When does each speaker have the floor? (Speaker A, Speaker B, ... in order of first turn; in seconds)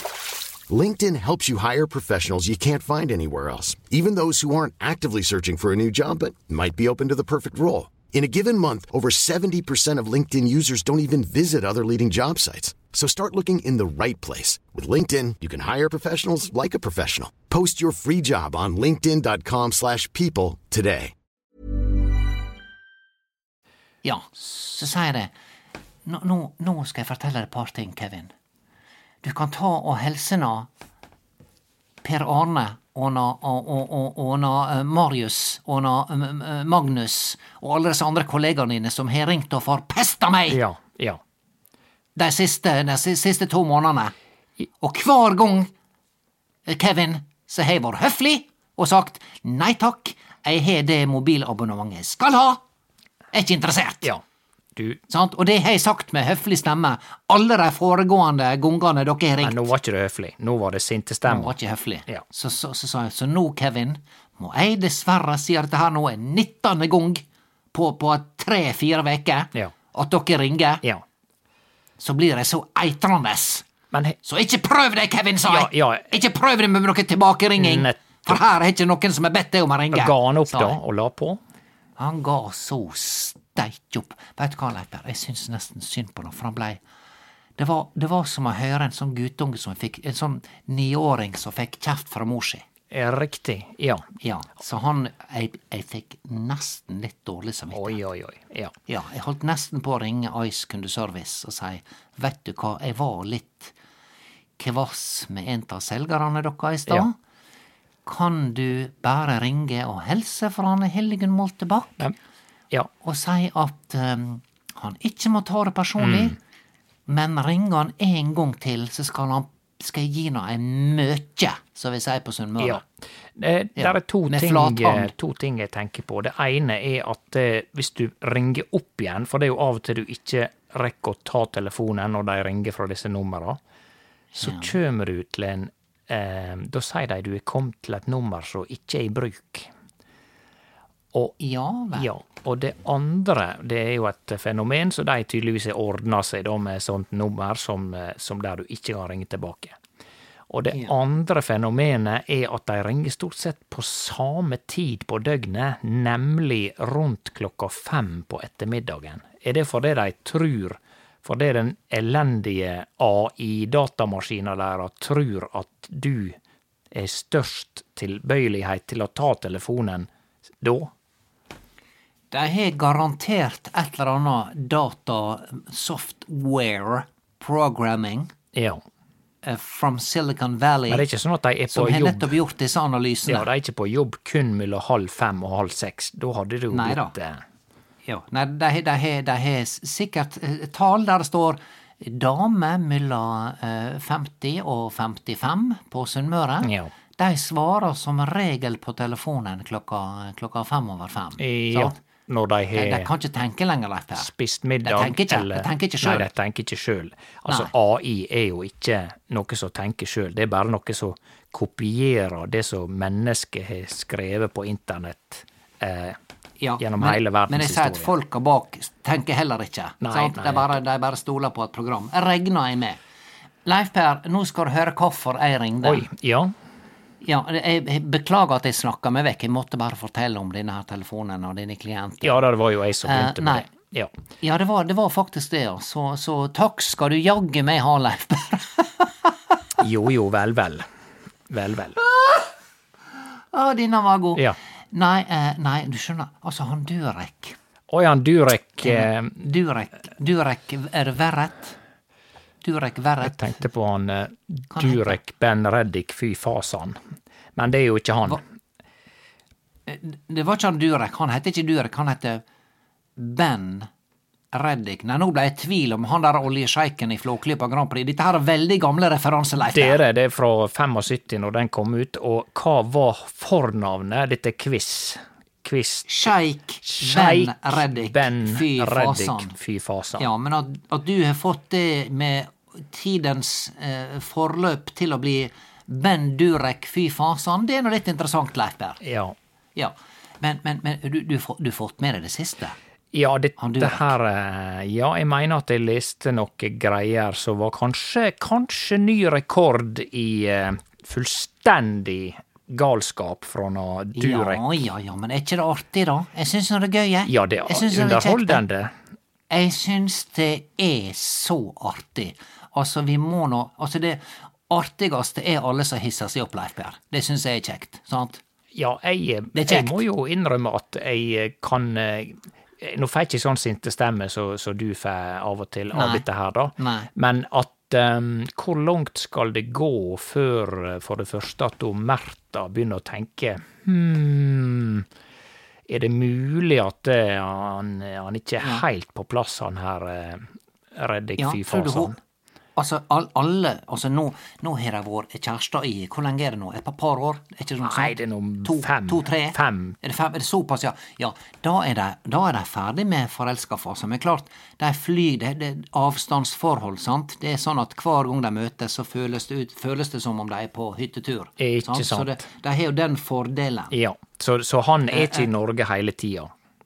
Speaker A: 0.7-21.1
Speaker B: 24.0-25.3, 26.1-28.3, 29.2-30.7, 32.0-40.6, 42.1-44.1, 44.8-45.7, 46.6-52.6, 53.3-54.1, 55.1-59.7, 61.3-70.8, 72.0-73.7, 74.2-80.8, 82.0-86.8, 87.6-92.6, 94.2-98.0, 98.9-103.7, 104.6-107.1, 108.0-112.0, 113.0-116.4, 117.1-122.8, 123.8-125.1, 134.3-134.7, 141.4-142.1, 172.3-178.3, 179.4-181.0, 181.7-183.5, 186.7-187.1, 188.1-201.9, 202.7-204.3, 204.8-206.3, 216.6-223.0, 223.6-226.0, 227.2-232.4, 233.0-233.7, 234.4-239.3, 243.5-247.6, 248.8-251.8, 252.6-253.6, 254.7-255.2, 259.9-262.4, 263.2-263.9, 264.5-270.0, 276.1-279.5, 280.2-289.0, 289.8-292.8, 293.6-294.1, 304.1-308.6, 309.5-318.4, 319.6-320.0, 325.9-326.2, 326.8-327.1, 338.6-338.8, 341.4-342.1, 342.8-363.9, 365.1-365.5
Speaker C: 40.5-41.2, 54.8-55.0, 59.4-61.5, 73.9-74.2, 75.5-76.1, 77.6-78.4, 79.9-81.4, 92.9-94.0, 97.7-98.7, 116.0-116.3, 122.6-122.8, 123.4-133.6, 134.4-139.7, 141.9-149.8, 150.5-166.3, 166.9-170.1, 170.6-170.9, 178.5-178.8, 180.9-182.4, 183.3-187.4, 196.6-196.9, 201.4-203.1, 204.2-216.2, 216.8-218.1, 220.0-220.8, 225.8-226.5, 232.2-234.1, 239.8-240.8, 241.5-242.0, 247.9-249.3, 253.2-257.0, 257.6-258.4, 269.6-276.1, 276.8-280.2, 289.0-289.3, 293.1-304.6, 307.3-308.9, 318.7-335.1, 335.9-342.1, 347.8-350.0, 361.6-362.4, 363.9-366.5